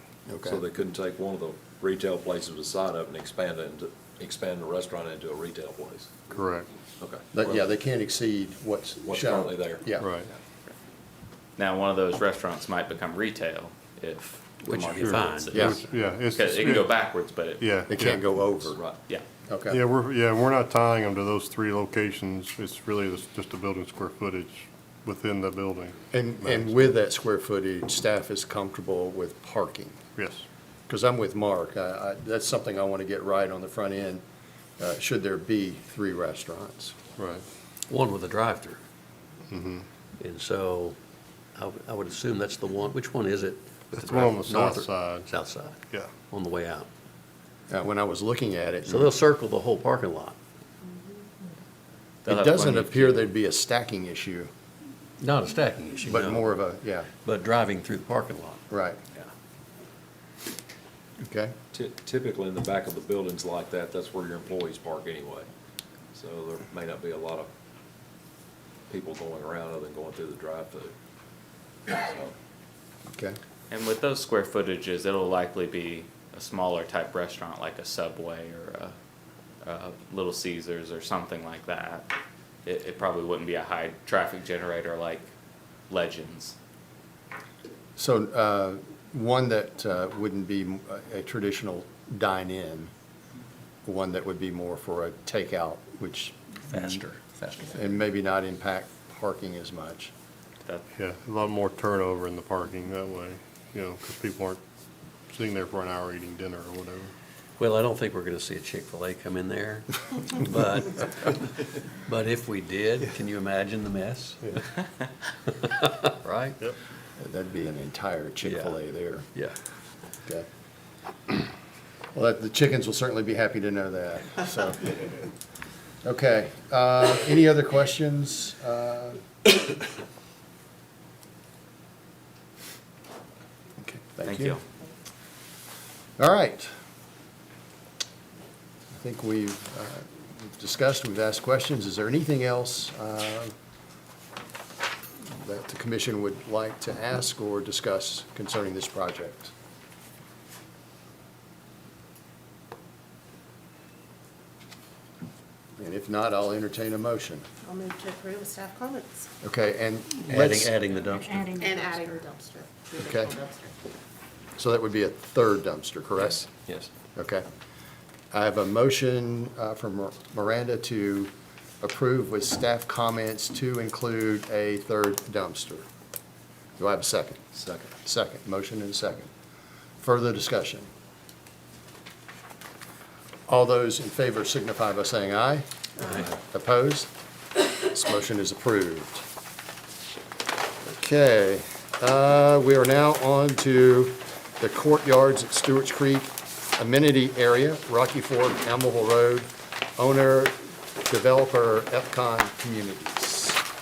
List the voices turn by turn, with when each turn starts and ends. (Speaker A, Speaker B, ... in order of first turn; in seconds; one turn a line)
Speaker A: 0.3-0.6
Speaker B: 0.4-6.1
Speaker C: 6.3-6.7
Speaker B: 7.0-7.5
Speaker A: 7.3-10.1
Speaker B: 9.1-10.2
Speaker C: 10.0-10.3
Speaker D: 11.6-17.6
Speaker E: 14.6-15.7
Speaker C: 15.0-17.0
Speaker A: 15.5-15.8
Speaker C: 17.6-18.5
Speaker A: 17.9-18.8
Speaker B: 18.8-19.0
Speaker D: 19.0-19.2
Speaker A: 19.5-19.8
Speaker C: 19.7-26.9
Speaker A: 26.1-30.0
Speaker C: 30.2-30.4
Speaker A: 30.9-34.2
Speaker A: 34.8-37.0
Speaker C: 37.2-37.5
Speaker E: 37.9-38.8
Speaker C: 39.5-39.9
Speaker E: 40.2-41.0
Speaker E: 41.6-46.9
Speaker C: 43.9-45.3
Speaker A: 47.7-49.1
Speaker E: 48.9-50.4
Speaker A: 52.2-54.5
Speaker D: 52.3-53.3
Speaker E: 55.2-56.5
Speaker A: 56.0-57.1
Speaker E: 57.2-58.6
Speaker A: 58.7-59.0
Speaker A: 61.2-61.5
Speaker B: 61.7-65.5
Speaker B: 66.1-67.5
Speaker B: 68.9-70.9
Speaker B: 71.9-72.3
Speaker A: 73.1-73.4
Speaker D: 73.7-79.0
Speaker D: 79.6-82.1
Speaker D: 82.7-85.3
Speaker D: 85.9-86.6
Speaker A: 88.0-92.9
Speaker A: 93.8-97.0
Speaker D: 96.7-97.6
Speaker A: 97.7-100.1
Speaker C: 100.9-104.6
Speaker C: 105.3-107.1
Speaker E: 107.6-114.6
Speaker E: 115.6-116.6
Speaker A: 117.2-119.3
Speaker E: 118.4-118.8
Speaker A: 122.1-125.2
Speaker A: 126.0-129.3
Speaker A: 133.8-134.6
Speaker D: 134.2-134.6
Speaker A: 136.2-136.7
Speaker A: 138.9-143.5
Speaker A: 145.3-149.5
Speaker A: 155.8-157.5
Speaker F: 157.7-159.2
Speaker A: 159.4-160.7
Speaker E: 160.3-162.1
Speaker F: 161.6-163.7
Speaker A: 163.0-163.4
Speaker A: 164.6-166.5
Speaker B: 166.7-166.9
Speaker A: 167.2-167.5
Speaker A: 168.3-175.8
Speaker A: 176.8-177.4
Speaker B: 177.5-177.9
Speaker A: 178.0-179.3
Speaker A: 180.0-180.9
Speaker A: 183.5-187.1
Speaker A: 187.8-189.2
Speaker A: 190.9-203.6